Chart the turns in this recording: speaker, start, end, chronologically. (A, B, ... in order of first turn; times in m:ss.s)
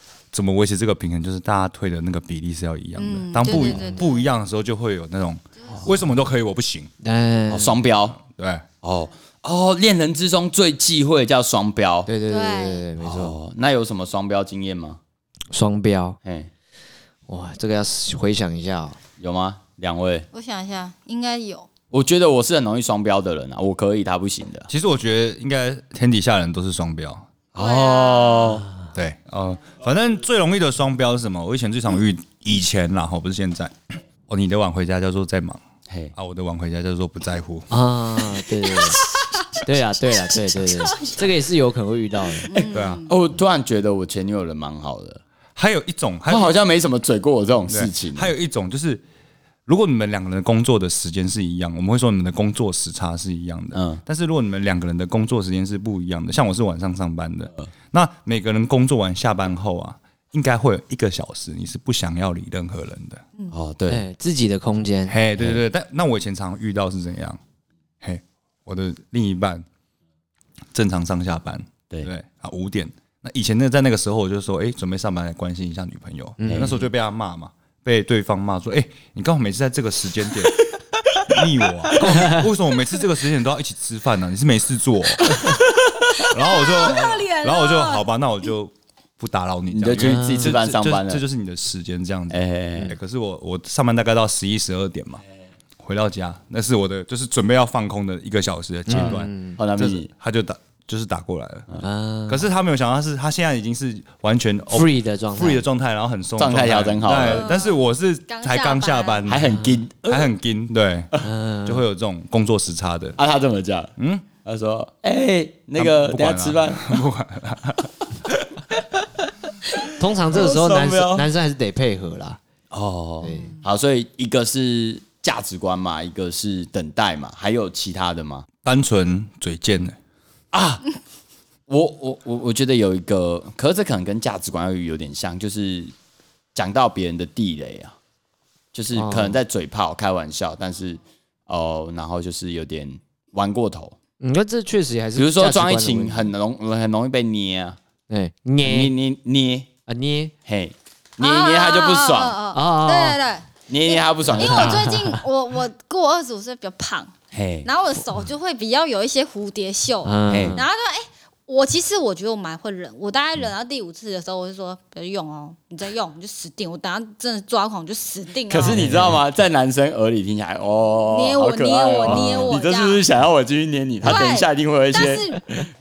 0:00.3-0:06.9 A
0:03.0-0:04.2 B
0:03.5-0:04.0 C
0:07.0-0:07.8 C
0:07.5-0:08.2 D
0:08.2-0:08.6 A
0:08.8-0:12.1 D
0:12.1-0:13.4 C
0:12.3-0:12.8 B
0:13.0-0:15.0 D
0:15.5-0:16.2 C
0:16.2-0:16.5 D
0:17.3-0:19.0 C
0:19.2-0:20.3 D
0:20.3-0:21.7 B
0:21.9-0:24.7 D
0:24.7-0:27.3 A
0:27.5-0:28.7 D
0:27.6-0:28.6 B
0:28.9-0:35.6 A
0:35.9-0:36.1 D
0:36.2-0:37.7 A
0:37.7-0:39.0 C
0:38.7-0:39.4 B
0:39.6-0:42.6 C
0:40.2-0:41.3 B
0:42.5-0:43.1 B
0:42.7-0:43.1 A
0:43.1-0:45.2 D
0:45.6-0:46.6 A
0:46.3-0:48.3 D
0:47.7-0:49.0 A
0:49.7-1:03.2 A
0:53.7-0:54.0 D
1:03.5-1:04.0 D
1:03.9-1:05.2 C
1:05.1-1:07.4 A
1:05.4-1:05.6 D
1:08.0-1:09.6 A
1:10.7-1:20.7 A
1:16.4-1:16.8 C
1:16.5-1:16.8 D
1:21.2-1:25.4 A
1:22.0-1:22.5 C
1:26.3-1:35.2 A
1:26.3-1:28.0 B
1:29.7-1:31.2 D
1:29.9-1:30.6 C
1:32.3-1:32.9 D
1:35.8-1:41.7 A
1:38.9-1:39.6 C
1:38.9-1:40.1 D
1:41.8-1:42.5 C
1:42.3-1:51.1 A
1:44.7-1:45.6 C
1:46.4-1:47.6 D
1:47.1-1:49.2 B
1:49.3-1:50.3 D
1:49.4-1:49.8 C
1:51.2-1:51.9 C
1:51.7-1:53.2 A
1:53.2-1:57.0 D
1:54.0-1:54.3 A
1:55.8-1:58.6 A
2:00.0-2:02.4 C
2:00.3-2:01.3 D
2:02.7-2:08.5 D
2:03.2-2:03.6 C
2:08.6-2:10.0 A
2:10.5-2:10.9 D
2:11.7-2:15.9 D
2:16.6-2:18.0 D
2:18.7-2:24.0 D
2:18.9-2:19.4 C
2:24.2-2:26.3 C
2:25.2-2:27.8 D
2:28.1-2:28.9 C
2:28.6-2:29.7 D
2:29.9-2:30.3 C
2:30.4-2:32.4 D
2:31.2-2:37.1 B
2:32.5-2:33.2 C
2:33.7-2:34.9 D
2:34.3-2:35.2 C
2:37.3-2:37.7 D
2:37.6-2:48.8 B
2:40.0-2:40.6 C
2:40.3-2:40.6 D
2:48.5-2:55.6 D
2:51.0-2:53.0 B
2:52.1-2:52.5 C
2:54.0-2:55.4 B